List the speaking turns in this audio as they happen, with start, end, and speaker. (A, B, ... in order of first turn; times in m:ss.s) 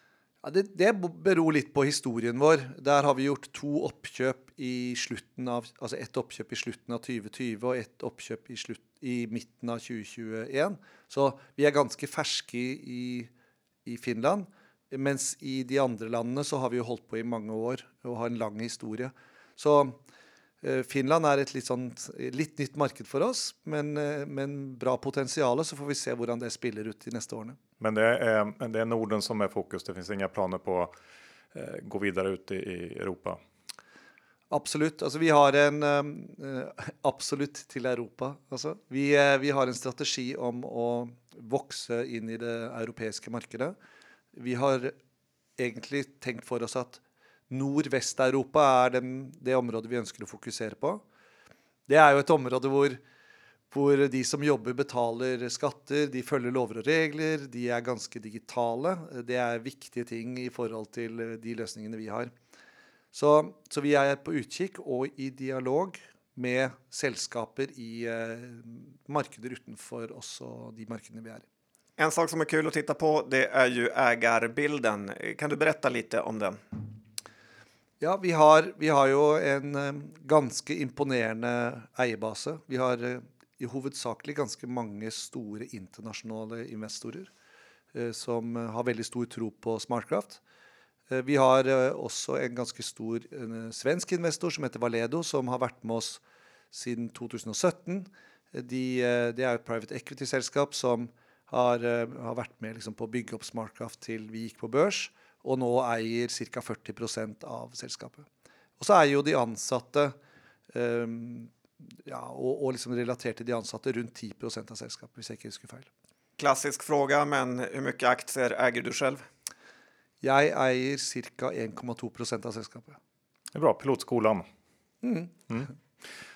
0:00.4-0:13.3 A
0:13.8-0:20.0 A
0:20.6-0:27.6 A
0:27.8-0:30.9 B
0:31.5-0:33.4 B
0:34.5-0:43.7 A
0:44.3-0:44.9 A
0:45.6-0:51.0 A
0:51.9-0:53.0 A
0:53.7-1:02.3 A
1:03.1-1:11.4 A
1:12.0-1:16.8 C
1:18.0-1:27.3 A
1:27.9-1:30.4 A
1:31.1-1:36.2 A
1:36.7-1:48.3 A
1:48.8-1:50.1 A
1:50.7-1:55.9 A
1:56.4-1:59.2 C
2:00.2-2:03.0 A
2:03.5-2:04.4 B
2:05.0-2:05.4 A